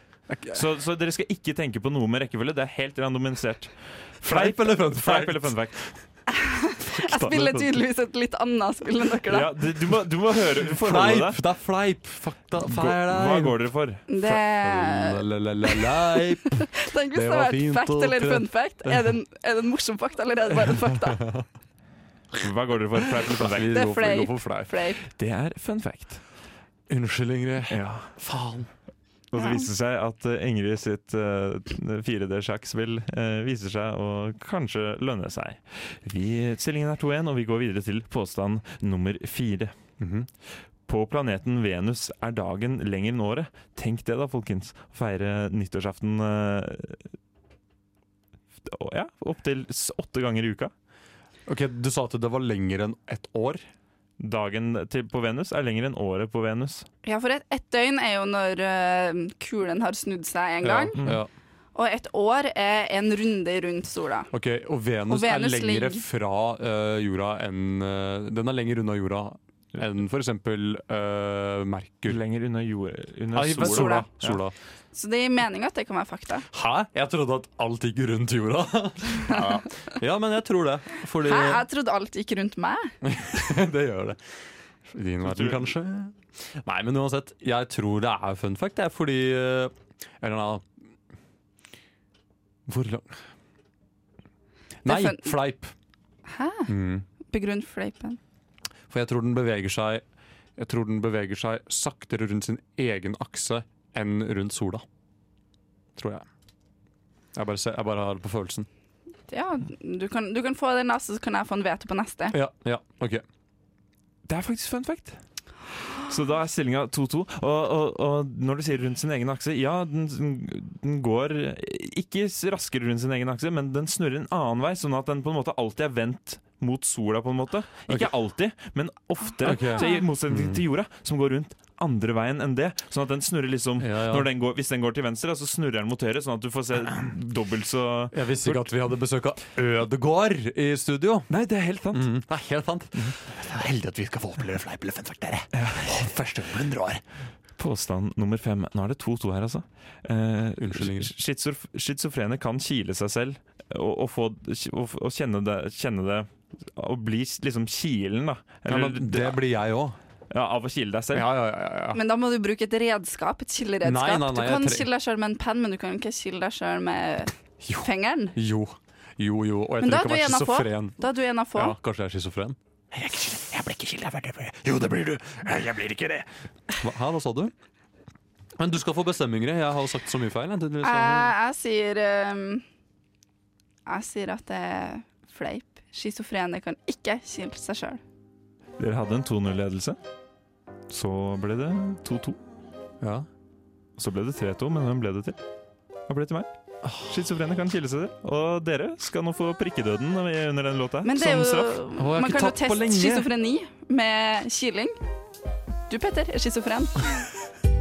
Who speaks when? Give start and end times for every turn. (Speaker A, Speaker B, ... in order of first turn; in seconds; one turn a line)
Speaker A: 0.3-0.6
Speaker B: 0.5-5.9
Speaker A: 4.2-5.6
Speaker C: 6.3-9.5
Speaker A: 6.9-7.8
Speaker B: 9.3-11.4
Speaker A: 10.8-13.6
Speaker B: 12.6-14.4
Speaker C: 14.1-16.2
Speaker A: 14.6-16.6
Speaker C: 16.8-21.2
Speaker A: 17.1-19.1
Speaker A: 21.1-21.4
Speaker B: 22.4-23.8
Speaker A: 23.4-24.8
Speaker C: 23.7-25.0
Speaker B: 25.0-26.2
Speaker A: 26.9-28.7
Speaker B: 27.7-28.1
Speaker B: 29.3-39.8
Speaker C: 29.4-29.7
Speaker A: 40.0-40.3
Speaker B: 40.9-47.0
Speaker B: 48.6-50.7
Speaker A: 51.5-53.6
Speaker B: 54.2-56.9
Speaker C: 57.0-61.0
Speaker A: 60.6-61.3
Speaker C: 61.8-64.3
Speaker A: 64.3-72.2
Speaker C: 65.1-66.0
Speaker B: 72.1-74.4
Speaker A: 73.3-74.5
Speaker C: 73.5-74.1
Speaker C: 74.9-76.5
Speaker A: 76.5-81.7
Speaker C: 81.2-82.9
Speaker A: 83.0-84.2
Speaker A: 84.9-90.7
Speaker B: 85.3-85.7
Speaker A: 92.7-93.2
Speaker C: 94.8-95.4
Speaker A: 94.8-95.7
Speaker C: 96.3-96.7
Speaker A: 96.7-97.0
Speaker C: 97.3-98.2
Speaker A: 98.9-100.0
Speaker A: 100.6-104.8
Speaker A: 106.0-106.2
Speaker A: 107.3-108.7
Speaker C: 109.3-112.3
Speaker A: 112.3-113.2
Speaker B: 114.3-115.2
Speaker B: 116.0-138.7
Speaker A: 129.4-130.6
Speaker C: 129.5-130.1
Speaker A: 133.8-134.3
Speaker A: 138.1-141.3
Speaker B: 141.3-142.1
Speaker A: 141.9-147.0
Speaker B: 145.6-145.9
Speaker B: 147.6-159.4
Speaker A: 150.6-151.1
Speaker A: 158.7-160.0
Speaker B: 160.3-161.3
Speaker A: 161.1-162.0
Speaker C: 161.9-167.3
Speaker A: 163.8-164.9
Speaker A: 167.6-171.0
Speaker C: 167.8-168.4
Speaker C: 169.8-171.8
Speaker A: 171.6-176.3
Speaker A: 176.8-177.5
Speaker A: 178.6-181.3
Speaker C: 180.8-182.6
Speaker C: 183.9-188.0
Speaker B: 188.8-190.0
Speaker B: 190.9-192.4
Speaker A: 193.0-193.3
Speaker B: 194.0-195.4
Speaker B: 196.1-196.5
Speaker A: 196.8-197.2
Speaker B: 197.1-201.7
Speaker C: 201.0-205.0
Speaker A: 201.3-203.3
Speaker C: 205.9-206.9